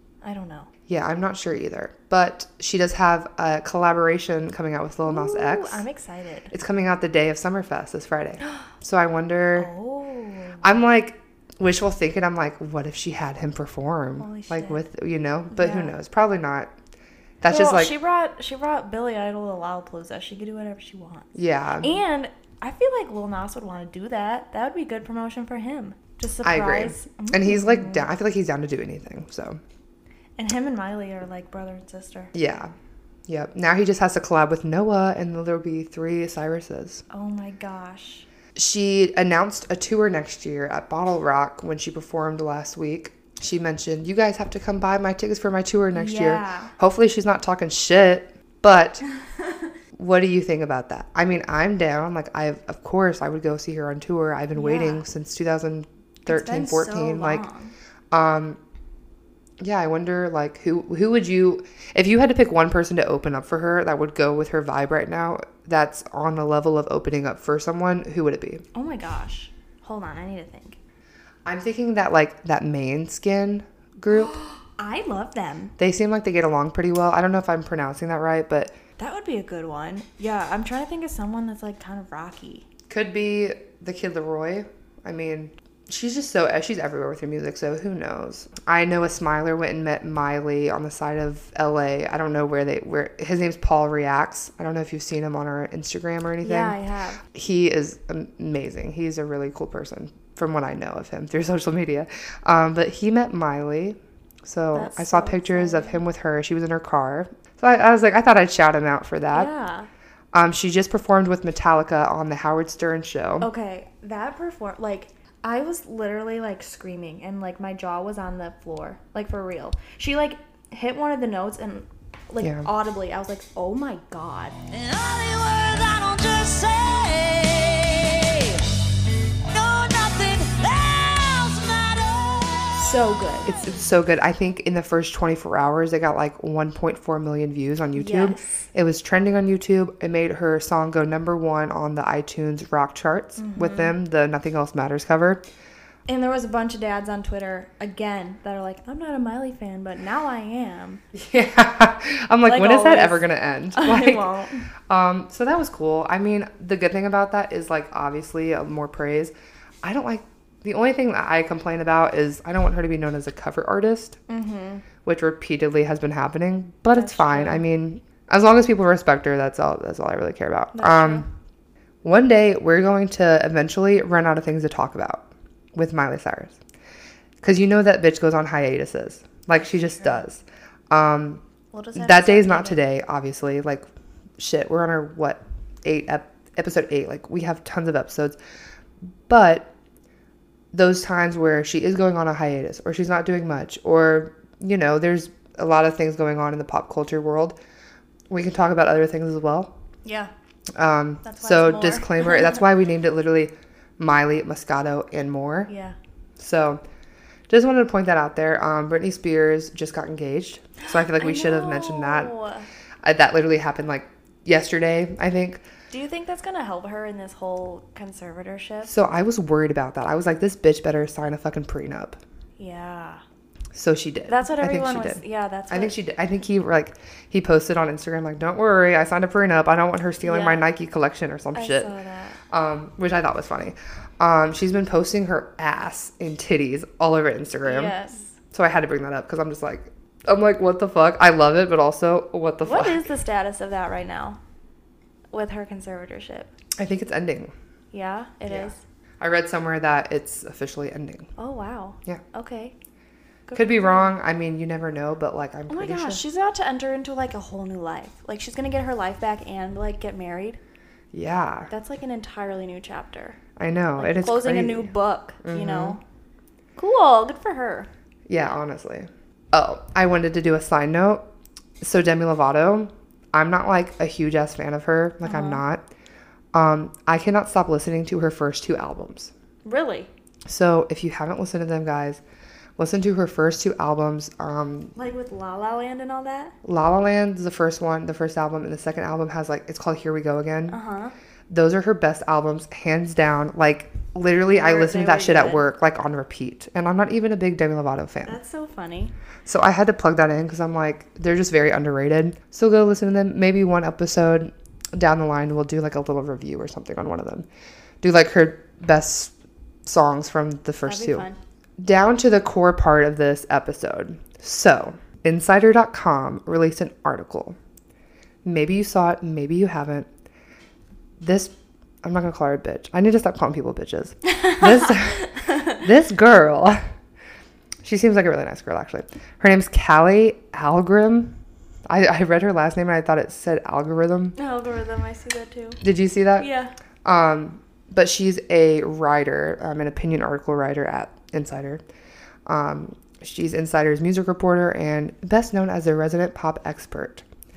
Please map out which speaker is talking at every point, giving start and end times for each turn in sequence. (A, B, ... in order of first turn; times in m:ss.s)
0:00.2-0:00.7 A
0:00.9-0:05.8 B
0:05.0-0:06.5 A
0:06.5-0:09.7 B
0:08.4-0:08.7 A
0:09.6-0:10.6 A
0:10.6-0:16.7 B
0:14.2-0:14.8 A
0:15.5-0:15.9 A
0:17.4-0:17.9 B
0:17.4-0:21.3 A
0:21.3-0:22.0 B
0:21.8-0:28.1 A
0:26.4-0:29.6 B
0:30.4-0:32.3 A
0:32.3-0:32.7 B
0:33.3-0:37.0 B
0:37.1-0:38.2 A
0:38.5-0:49.0 B
0:45.9-0:46.7 A
0:49.9-0:57.4 B
0:54.5-0:55.1 A
0:56.3-0:57.7 A
0:58.1-0:58.6 B
0:59.6-1:08.6 B
1:08.7-1:10.8 A
1:11.4-1:14.3 B
1:14.1-1:15.7 A
1:15.8-1:18.8 B
1:19.0-1:22.6 A
1:22.9-1:36.8 B
1:36.4-1:37.2 A
1:37.3-1:49.5 B
1:44.7-1:46.0 A
1:49.3-1:49.9 A
1:50.3-1:53.5 B
1:53.4-2:04.6 A
2:02.4-2:02.7 B
2:04.7-2:08.7 C
2:09.5-2:12.8 C
2:12.8-2:13.5 A
2:13.4-2:25.4 B
2:17.9-2:18.6 A
2:23.4-2:23.9 A
2:26.1-2:31.0 A
2:31.1-2:34.2 B
2:32.4-2:34.7 A
2:34.9-2:44.2 B
2:44.3-2:44.8 A
2:45.0-2:51.2 B
2:46.9-2:47.6 A
2:50.7-2:51.3 A
2:52.0-2:56.6 B
2:57.4-3:01.4 B
3:00.0-3:00.2 A
3:01.7-3:02.8 A
3:02.0-3:03.9 B
3:04.4-3:08.4 B
3:09.3-3:09.7 B
3:10.7-3:17.6 B
3:18.3-3:19.7 B
3:20.0-3:20.3 A
3:20.7-3:25.7 B
3:21.2-3:22.6 A
3:25.7-3:26.0 A
3:26.4-3:26.8 B
3:27.5-3:32.3 B
3:30.8-3:32.6 A
3:33.0-3:35.6 B
3:35.9-3:38.9 A
3:38.8-3:42.2 B
3:42.6-3:43.2 A
3:43.7-3:51.9 B
3:44.3-3:45.9 A
3:50.2-3:50.6 A
3:51.5-3:52.4 A
3:52.5-3:57.9 B
3:57.6-3:58.4 A
3:58.5-4:03.1 B
4:02.6-4:04.4 A
4:05.3-4:06.5 A
4:06.8-4:07.5 B
4:07.9-4:08.8 A
4:08.5-4:11.3 B
4:11.4-4:12.7 A
4:13.5-4:14.1 A
4:13.5-4:16.2 B
4:15.7-4:20.6 A
4:21.1-4:21.7 B
4:21.7-4:23.4 A
4:23.6-4:24.9 B
4:24.0-4:26.0 A
4:25.4-4:26.0 B
4:26.8-4:27.9 A
4:28.3-4:31.2 B
4:31.8-4:35.8 B
4:35.2-4:35.6 A
4:36.5-4:39.3 B
4:39.6-4:40.1 A
4:40.4-4:42.2 B
4:42.8-4:44.9 B
4:45.0-4:46.5 A
4:46.6-4:50.8 B
4:50.7-4:51.1 A
4:51.5-4:58.4 B
4:54.5-4:55.6 A
4:58.2-4:59.1 A
4:59.4-5:07.5 B
5:08.0-5:09.3 B
5:09.8-5:11.3 B
5:10.8-5:11.4 A
5:11.8-5:17.6 B
5:18.4-5:20.1 B
5:21.2-5:26.8 B
5:27.8-5:31.3 B
5:31.9-5:34.3 B
5:34.4-5:35.8 A
5:35.8-5:36.5 B
5:36.4-5:36.7 A
5:37.0-5:41.8 B
5:42.5-5:47.2 B